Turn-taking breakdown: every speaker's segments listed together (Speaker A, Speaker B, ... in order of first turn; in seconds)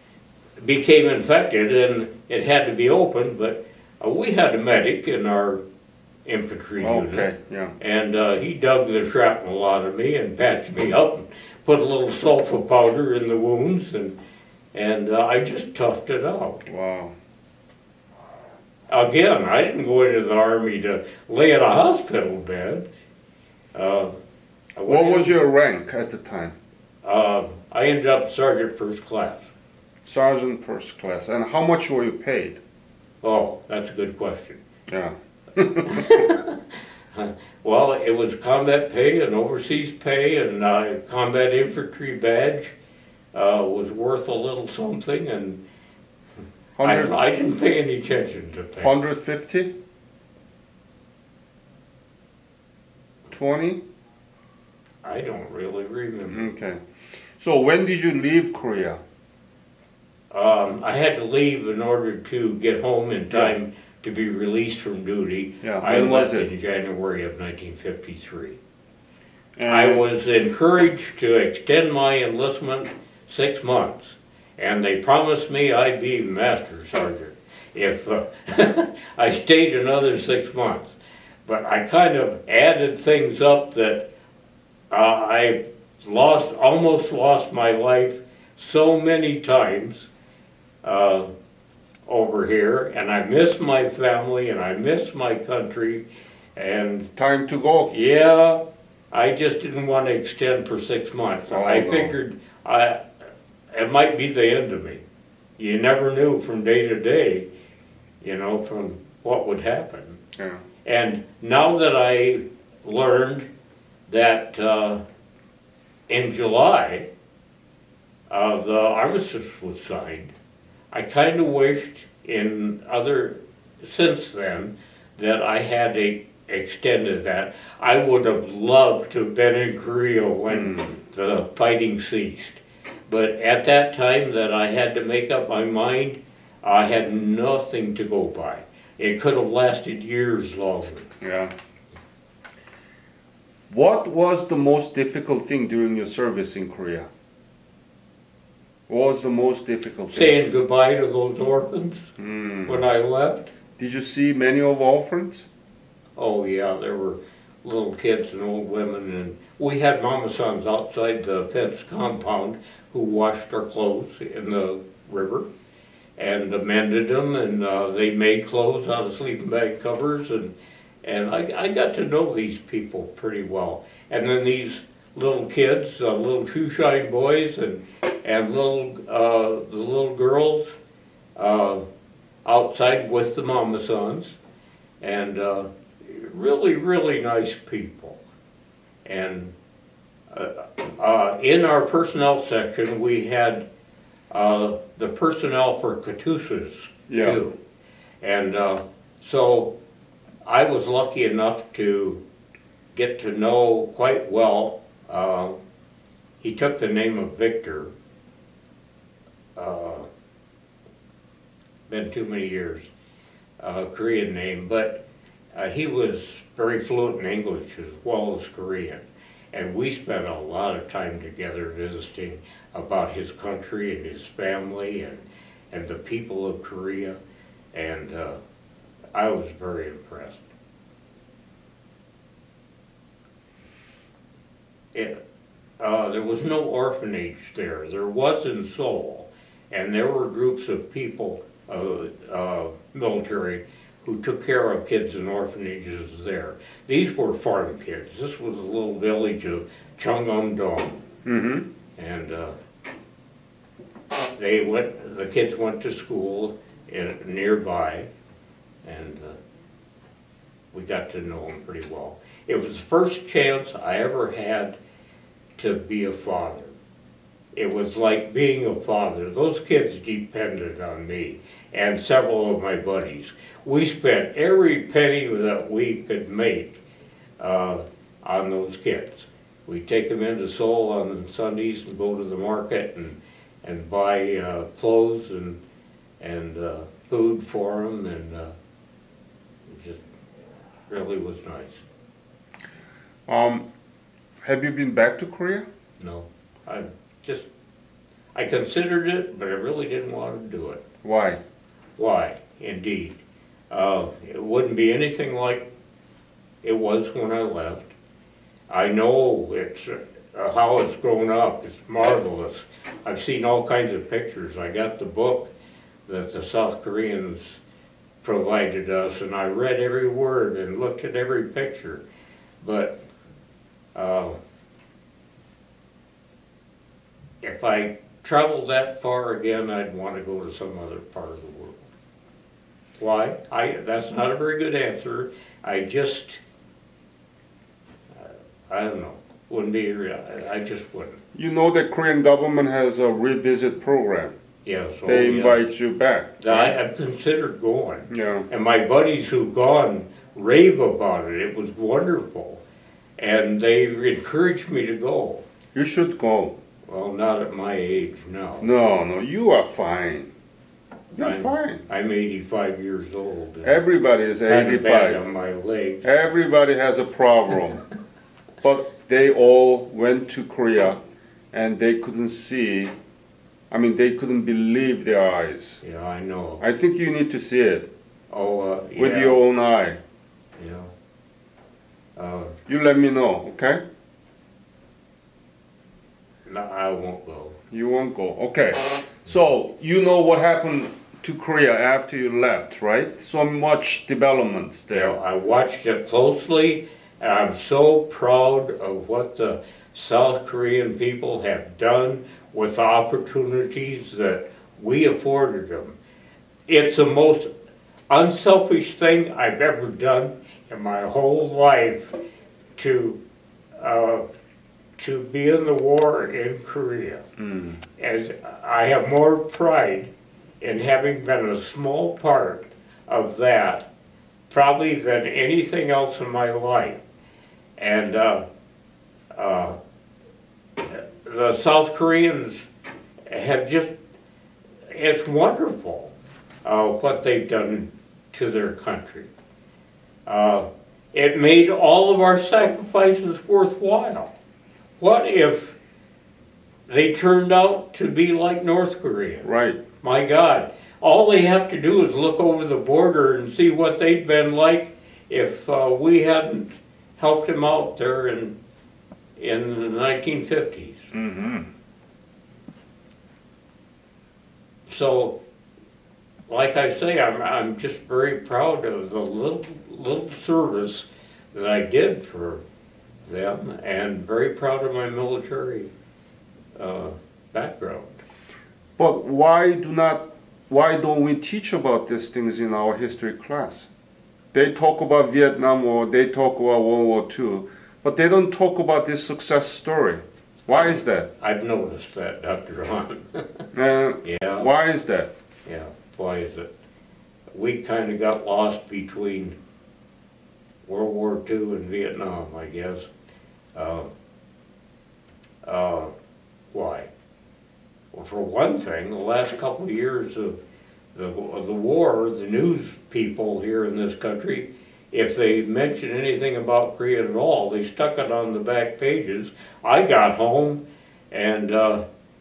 Speaker A: 0.6-5.6, 6.2-14.2, 14.7-16.6, 18.9-22.9, 23.7-24.1, 24.8-25.4, 27.0-29.5, 33.2-34.6, 35.8-42.7, 43.3-45.6, 46.8-48.9, 55.0-56.5, 60.3-68.6, 69.7-84.1, 84.9-90.1, 90.8-91.3, 92.0-96.0, 96.5-97.1, 97.9-98.6, 99.1-103.0, 103.7-105.0, 105.6-107.5, 108.2-110.2, 110.8-113.5, 114.1-115.0, 116.1-117.1, 118.3-120.3, 120.9-141.1, 150.1-152.1, 152.7-153.5, 156.2-165.5, 166.2-180.8, 181.3-181.8, 182.4-184.4, 185.0-188.2, 189.0-189.5, 190.3-193.7, 194.3-197.6, 198.2-199.7, 200.4-202.2, 202.9-205.5, 206.4-207.9, 209.6-210.1, 211.9-212.9, 213.6-215.0, 215.5-227.2, 227.7-228.4, 229.1-230.4, 234.9-235.2, 235.8-251.0, 252.0-252.5, 254.4-258.1, 258.8-259.4, 260.7-264.8, 265.6-266.7, 267.5-276.8, 277.4-285.6, 286.2-288.5, 289.7-290.0, 290.9-291.8, 296.0-297.5, 298.3-300.8, 302.0-305.7, 306.6-307.9, 308.7-315.5, 316.1-317.6, 318.2-322.0, 322.6-323.0, 323.9-324.4, 327.4-331.8, 333.0-336.4, 338.1-341.2, 344.6-345.6, 346.4-352.6, 353.2-355.4, 356.9-358.7, 361.2-363.8, 364.4-366.1, 375.8-376.6, 378.3-379.4, 380.6-380.9, 382.1-382.6, 386.4-387.6, 394.9-406.0, 406.7-407.5, 408.1-412.1, 412.8-413.2, 413.8-414.2, 415.0-417.2, 418.0-420.1, 420.6-423.9, 424.5-427.0, 427.8-428.4, 429.3-429.8, 430.8-432.7, 433.3-433.9, 434.9-436.1, 436.6-439.3, 440.2-444.3, 445.0-445.8, 446.9-449.5, 450.0-458.6, 459.4-461.1, 464.9-465.4, 466.5-472.6, 473.2-475.9, 476.8-478.2, 491.4-493.6, 494.2-494.7, 495.6-496.7, 497.5-499.6, 500.8-503.1, 503.7-504.1, 505.6-506.1, 506.7-507.1, 508.1-510.6, 511.1-522.0
Speaker B: 6.8-7.8, 16.6-17.1, 24.9-26.6, 30.0-32.6, 34.9-36.3, 46.8-47.2, 48.8-49.7, 53.3-53.8, 56.3-56.8, 57.4-59.0, 65.6-66.5, 69.5-70.0, 97.2-97.9, 101.5-102.1, 110.4-110.6, 130.5-130.9, 141.2-141.5, 143.7-147.1, 148.9-150.4, 152.2-152.8, 153.8-155.5, 197.1-197.4, 251.2-251.7, 293.3-293.6, 294.4-295.6, 301.0-301.4, 341.3-344.3, 345.1-346.8, 348.1-348.5, 355.7-356.6, 358.6-360.3, 361.1-361.8, 363.6-365.2, 366.0-367.9, 368.6-371.0, 371.5-372.9, 373.7-375.8, 376.6-377.9, 379.0-380.0, 382.7-383.8, 387.7-395.2, 417.4-417.8, 449.4-449.8, 461.1-461.7, 479.0-483.9, 484.5-491.3, 493.7-495.3